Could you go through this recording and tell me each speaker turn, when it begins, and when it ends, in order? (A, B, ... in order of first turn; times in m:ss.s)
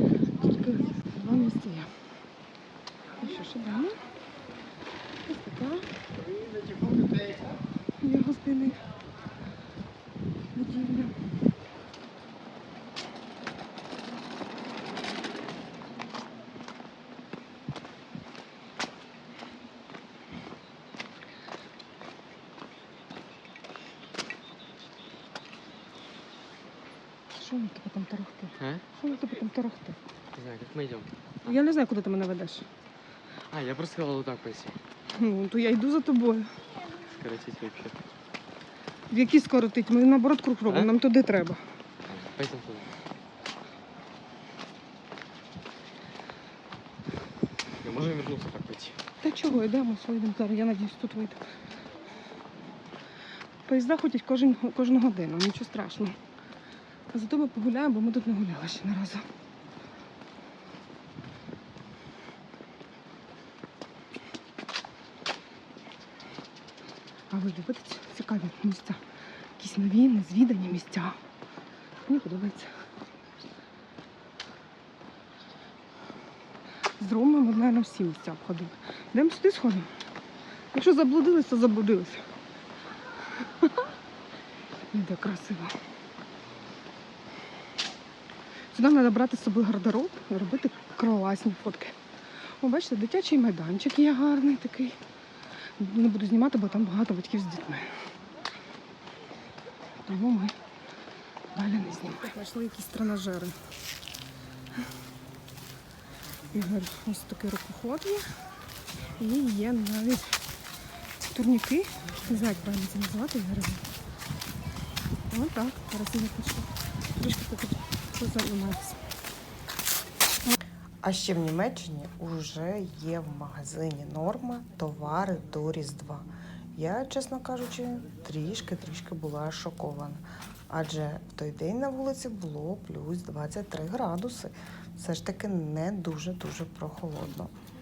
0:00.4-0:01.9 A
0:03.2-0:04.0 A
0:05.3-0:05.9 A
0:08.0-0:08.8 A
0:10.6-0:11.1 A
0:27.4-0:30.0 A
0:28.6-0:28.8 B
0:30.3-0:31.5 B
0:31.4-0:32.7 A
0:33.5-0:34.8 B
0:35.1-0:36.5 A
0:37.1-0:38.0 B
0:39.1-0:41.6 A
0:42.1-0:42.9 B
0:47.8-0:49.0 B
0:49.2-0:51.4 A
0:53.7-0:56.1 A
0:57.1-0:59.2 A
1:07.3-1:09.0 A
1:09.6-1:11.2 A
1:12.0-1:12.7 A
1:17.0-1:19.9 A
1:20.7-1:22.2 A
1:23.4-1:23.8 A
1:24.9-1:25.7 A
1:28.7-1:32.0 A
1:32.6-1:35.0 A
1:35.8-1:37.9 A
1:40.1-1:40.5 A
1:41.6-1:43.6 A
1:46.5-1:48.2 A
1:49.2-1:50.3 A
1:51.2-1:53.8 A
1:55.3-1:59.0 A
2:01.0-2:17.6 C